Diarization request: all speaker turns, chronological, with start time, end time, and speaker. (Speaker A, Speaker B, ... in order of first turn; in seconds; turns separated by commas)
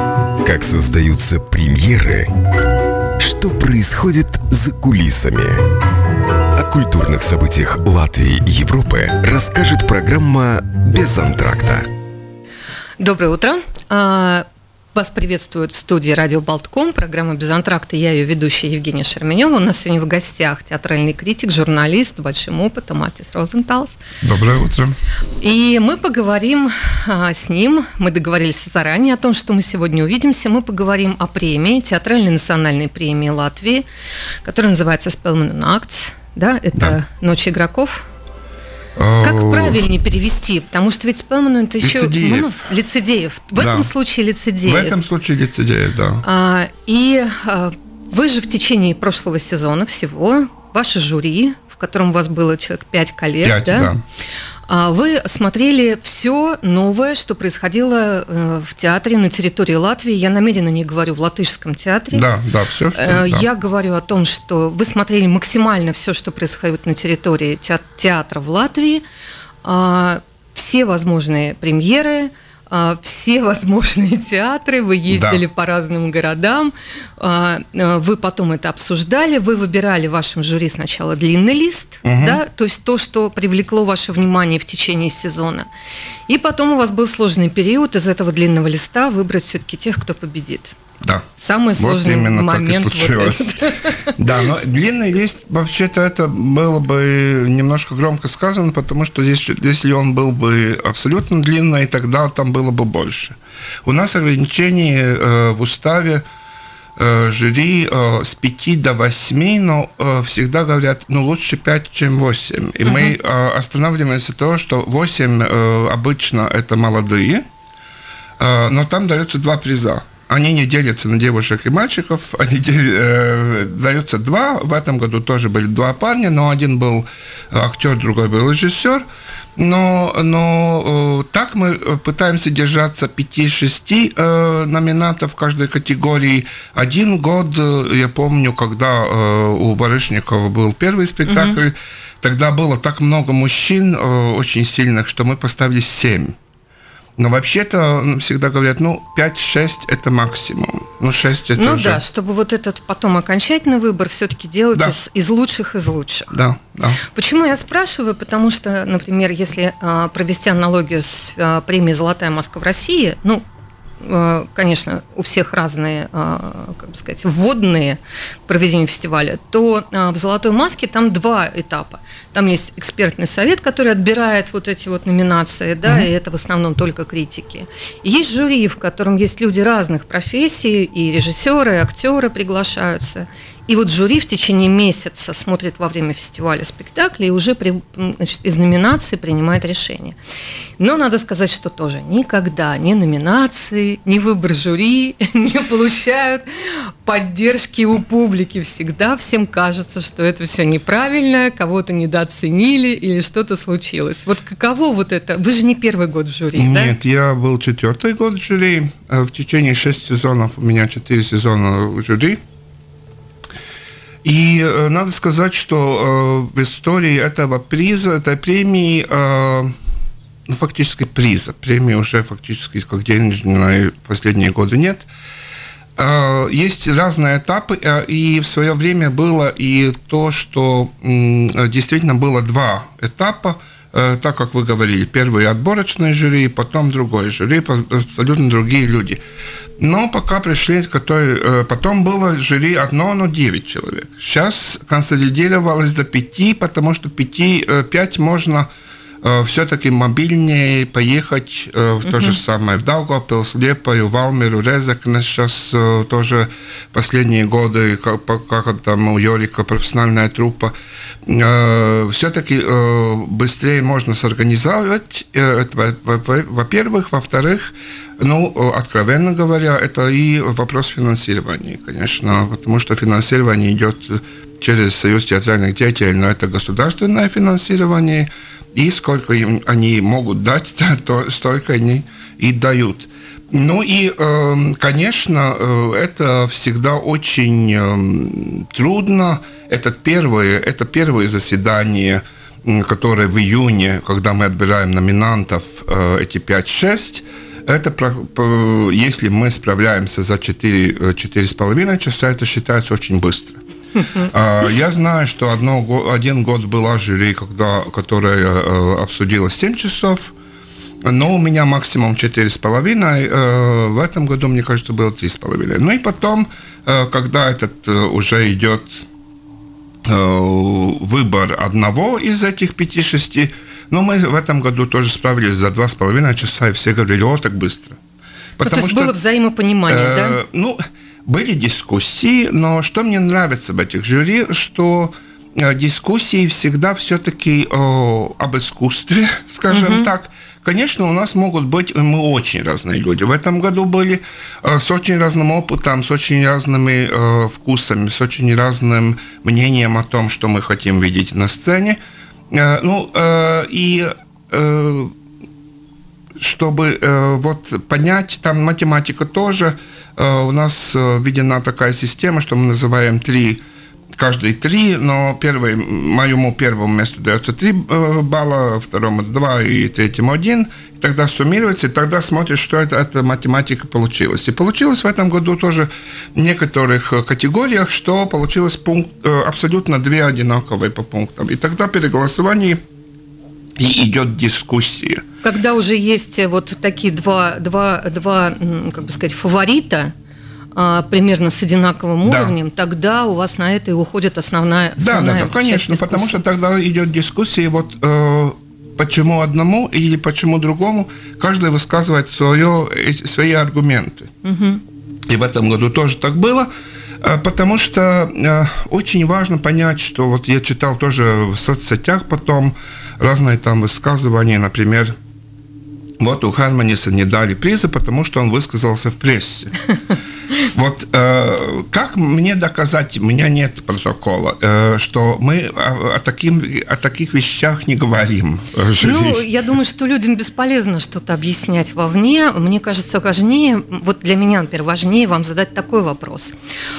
Speaker A: 0.4-2.3, Speaker A: 3.2-5.6, Speaker A: 6.6-11.9, Speaker B: 13.0-24.0, Speaker C: 24.2-24.9, Speaker B: 25.4-33.9, Speaker B: 34.4-38.1, Speaker C: 39.0-39.8, Speaker B: 39.2-45.0, Speaker C: 41.8-42.7, Speaker C: 43.6-43.9, Speaker C: 44.6-46.2, Speaker B: 46.2-53.9, Speaker C: 53.4-54.0, Speaker B: 54.7-62.3, Speaker C: 62.1-63.5, Speaker B: 63.0-69.0, Speaker B: 69.6-85.7, Speaker C: 75.1-75.4, Speaker C: 82.0-82.4, Speaker B: 86.3-90.8, Speaker C: 91.0-91.3, Speaker B: 91.4-94.1, Speaker C: 91.8-93.6, Speaker C: 94.1-106.2, Speaker C: 107.0-117.5, Speaker B: 112.8-113.2, Speaker C: 118.4-129.1, Speaker C: 129.6-146.4, Speaker B: 141.3-141.6, Speaker C: 147.2-152.0, Speaker B: 151.6-156.3, Speaker C: 156.3-157.0, Speaker B: 157.1-163.4, Speaker B: 164.0-190.2, Speaker B: 190.8-206.9, Speaker C: 206.6-212.4, Speaker C: 214.2-219.7, Speaker C: 220.5-225.1, Speaker C: 226.0-239.2, Speaker C: 239.8-248.7, Speaker C: 249.2-303.6, Speaker B: 252.1-252.4, Speaker C: 304.2-310.3, Speaker C: 311.0-319.1, Speaker C: 320.1-328.0, Speaker C: 328.6-329.1, Speaker B: 328.6-330.4, Speaker C: 329.9-352.0, Speaker B: 339.7-340.1, Speaker C: 352.5-355.1, Speaker C: 356.4-363.6, Speaker C: 364.1-382.8, Speaker C: 383.8-385.2, Speaker B: 385.4-390.1, Speaker B: 390.8-396.4, Speaker C: 392.2-392.5, Speaker C: 395.0-404.3, Speaker B: 404.4-404.8, Speaker C: 405.3-406.7, Speaker C: 407.2-415.1, Speaker C: 416.2-419.7, Speaker C: 420.6-429.4, Speaker B: 429.0-436.6